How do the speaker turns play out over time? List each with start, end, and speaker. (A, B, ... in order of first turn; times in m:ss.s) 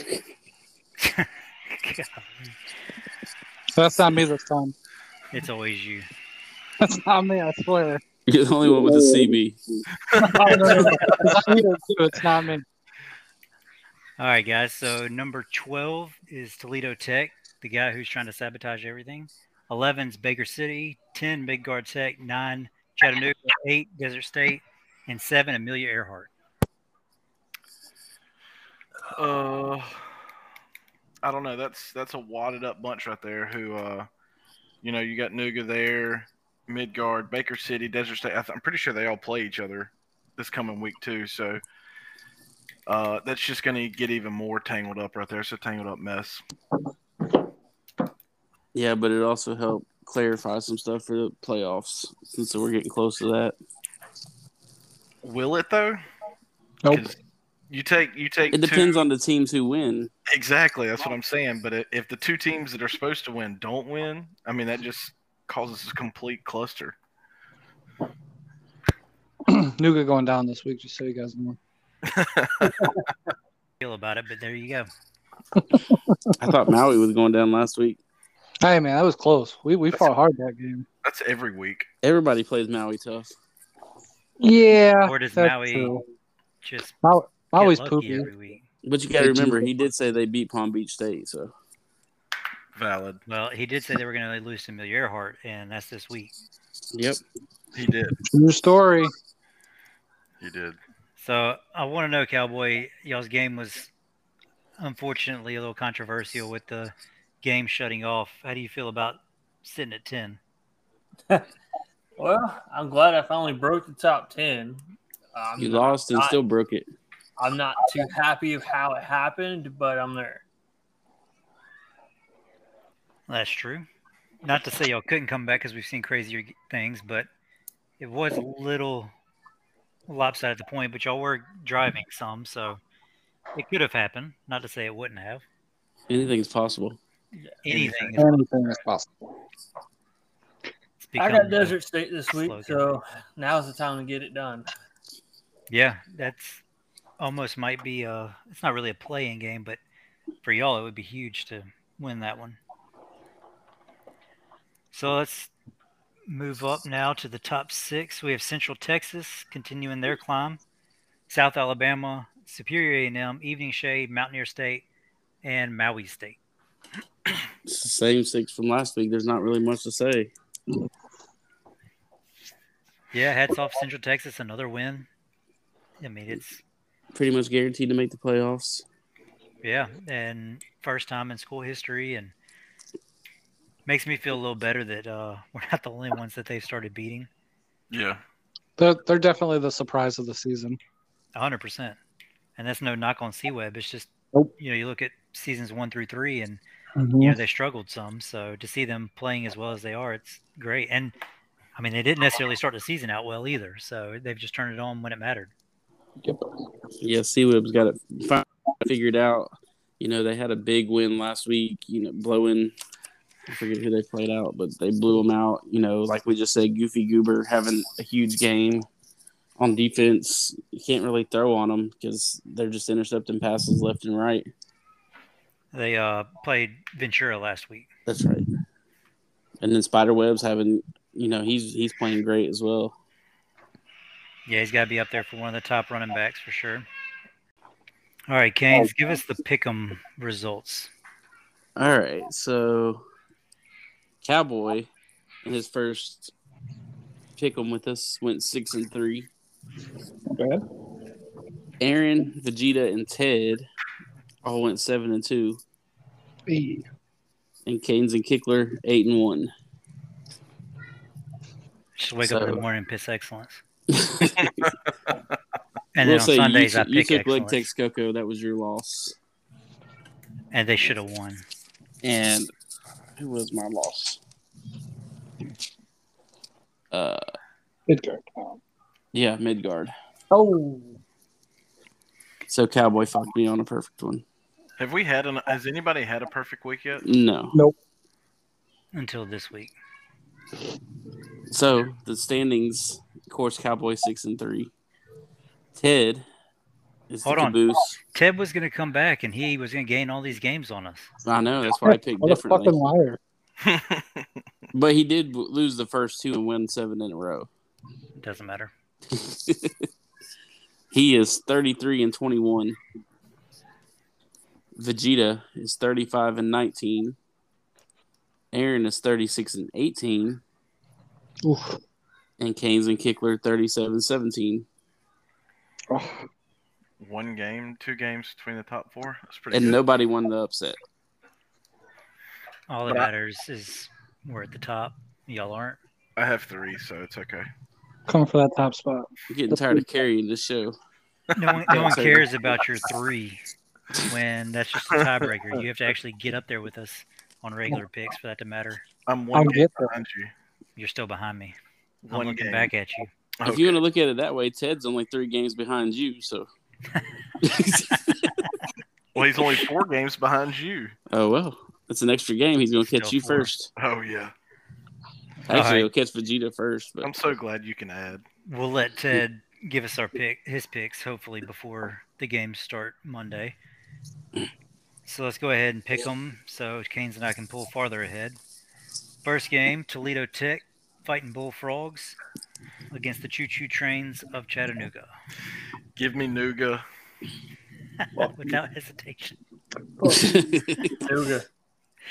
0:01.0-0:02.6 A
0:03.8-0:04.7 B
0:05.3-0:06.1 A
0:06.8-0:08.0 B
0:08.3-0:09.6 C
0:10.0-0:11.4 D
0:10.2-0:12.6 B
0:14.2-0:26.3 A
0:29.1-0:30.0 D
0:31.2-0:34.1 D
0:34.8-0:41.6 D
0:42.9-0:46.4 D
0:48.8-0:53.6 C
0:55.2-0:56.0 D
0:56.9-0:57.2 D
0:57.7-0:59.0 D
0:58.5-1:00.1 C
1:00.3-1:07.0 D
1:09.5-1:11.6 B
1:12.0-1:12.8 D
1:13.8-1:14.9 A
1:16.4-1:18.0 C
1:18.6-1:20.9 B
1:21.0-1:21.9 D
1:22.0-1:23.3 C
1:24.4-1:26.0 B
1:25.0-1:25.9 A
1:26.6-1:27.0 A
1:27.0-1:28.3 B
1:27.6-1:28.7 A
1:28.8-1:31.5 C
1:29.2-1:29.7 B
1:32.8-1:33.2 D
1:33.3-1:36.3 A
1:36.9-1:37.2 C
1:37.7-1:38.2 D
1:38.3-1:39.1 B
1:40.4-1:40.8 D
1:41.2-1:43.9 A
1:44.8-1:50.4 A
1:52.2-1:54.8 E
1:55.3-1:56.4 E
1:55.6-1:56.9 C
1:57.4-2:00.4 E
2:03.3-2:03.9 A
2:04.4-2:07.3 A
2:08.0-2:09.1 A
2:10.1-2:12.8 A
2:13.5-2:15.4 A
2:16.1-2:17.0 C
2:17.4-2:18.2 E
2:17.6-2:18.4 A
2:18.2-2:19.1 B
2:21.0-2:21.8 A
2:21.2-2:24.7 E
2:22.3-2:23.0 A
2:25.7-2:26.6 A
2:27.2-2:29.8 A
2:30.4-2:32.6 A
2:34.9-2:35.5 A
2:36.3-2:40.6 A
2:41.3-2:44.8 A
2:45.4-2:46.4 A
2:47.6-2:50.3 C
2:53.1-2:55.1 A
2:56.0-2:56.6 A
2:57.1-2:58.8 C
2:59.6-3:02.3 A
3:03.9-3:07.3 A
3:07.9-3:08.2 D
3:08.8-3:10.8 B
3:11.4-3:12.0 A
3:12.6-3:16.6 A
3:17.0-3:17.4 B
3:17.2-3:21.1 A
3:21.8-3:25.5 A
3:27.0-3:32.7 C
3:33.5-3:38.9 C
3:39.6-3:44.5 C
3:45.7-3:47.9 A
3:48.1-3:48.5 C
3:49.6-3:53.0 C
3:54.5-3:56.9 A
3:58.3-4:00.9 A
4:01.8-4:03.0 C
4:04.2-4:04.9 C
4:05.4-4:06.3 C
4:07.4-4:09.3 C
4:10.3-4:10.6 B
4:11.8-4:13.7 C
4:14.4-4:15.6 C
4:16.5-4:16.8 B
4:17.7-4:19.5 C
4:22.0-4:23.6 A
4:22.2-4:22.6 C
4:23.9-4:24.7 C
4:26.0-4:27.7 A
4:26.0-4:29.2 C
4:30.5-4:31.4 A
4:32.0-4:32.5 C
4:33.2-4:34.2 C
4:36.9-4:37.2 C
4:37.9-4:38.6 B
4:39.1-4:39.9 C
4:40.3-4:41.0 B
4:42.5-4:44.2 C
4:44.8-4:47.0 D
4:47.0-4:47.6 C
4:48.9-4:49.7 A
4:51.5-4:54.7 C
4:55.8-4:56.2 C
4:57.1-4:58.0 C
4:57.2-4:57.6 A
4:58.1-5:01.1 A
5:01.2-5:02.8 C
5:01.9-5:03.2 B
5:03.6-5:04.2 D
5:04.7-5:07.5 C
5:08.2-5:08.7 A
5:09.1-5:09.9 C
5:10.9-5:12.8 C
5:14.8-5:17.2 C
5:18.5-5:20.4 C
5:21.4-5:21.8 B
5:22.4-5:24.7 C
5:25.9-5:26.2 B
5:27.0-5:29.8 D
5:29.5-5:30.8 C
5:32.7-5:35.8 A
5:36.2-5:37.5 D
5:38.1-5:39.8 B
5:39.3-5:40.8 C
5:41.4-5:43.4 A
5:41.7-5:42.3 C
5:44.1-5:48.8 A
5:49.1-5:50.3 D
5:49.3-5:49.9 B
5:50.8-5:51.6 A
5:52.0-5:52.7 D
5:52.1-5:53.1 A
5:53.4-5:53.8 D
5:53.4-5:56.5 C
5:57.4-5:58.3 C
5:59.2-6:00.9 D
6:01.1-6:03.7 C
6:02.8-6:03.5 A
6:03.8-6:04.3 D
6:05.4-6:05.9 A
6:05.5-6:07.1 C
6:07.0-6:08.2 D
6:08.5-6:13.6 A
6:15.1-6:18.4 A
6:19.2-6:22.2 A
6:22.9-6:25.1 A
6:26.0-6:26.8 D
6:28.0-6:29.4 A
6:30.0-6:31.0 C
6:31.0-6:31.5 E